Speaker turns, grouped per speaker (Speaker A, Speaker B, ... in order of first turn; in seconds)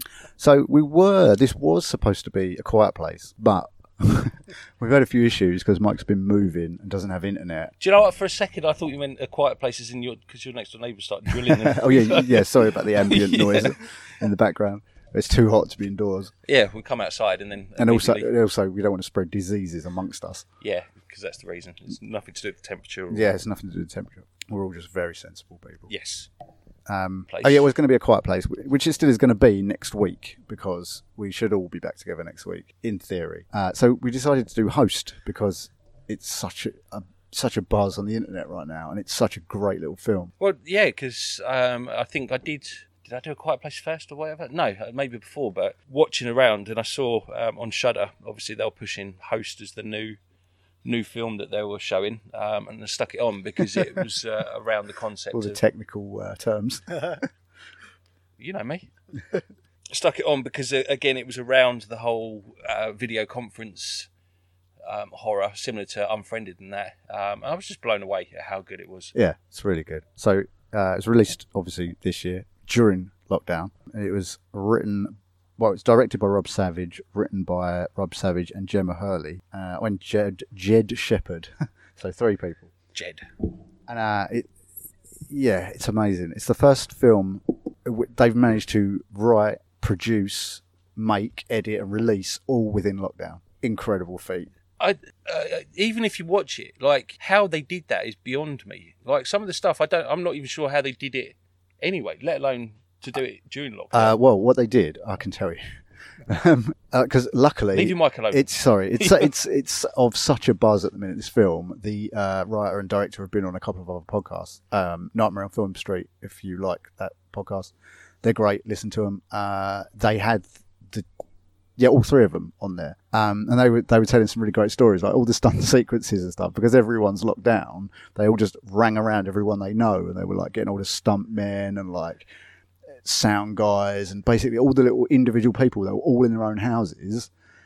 Speaker A: 0.4-7.7, 11.3-16.3, 17.8-20.4, 23.1-25.9, 26.9-40.3, 55.3-57.2, 69.1-82.7, 83.9-84.5, 85.3-94.5, 103.9-105.8, 106.3-121.1, 121.8-132.3, 133.0-137.3
Speaker B: 7.8-13.8, 16.5-18.3, 20.6-23.3, 25.9-26.3, 27.3-27.7, 40.4-50.2, 50.8-55.6, 58.4-58.9, 59.9-64.1, 64.8-69.1, 83.0-83.3, 94.8-104.2, 107.7-108.5, 109.0-109.3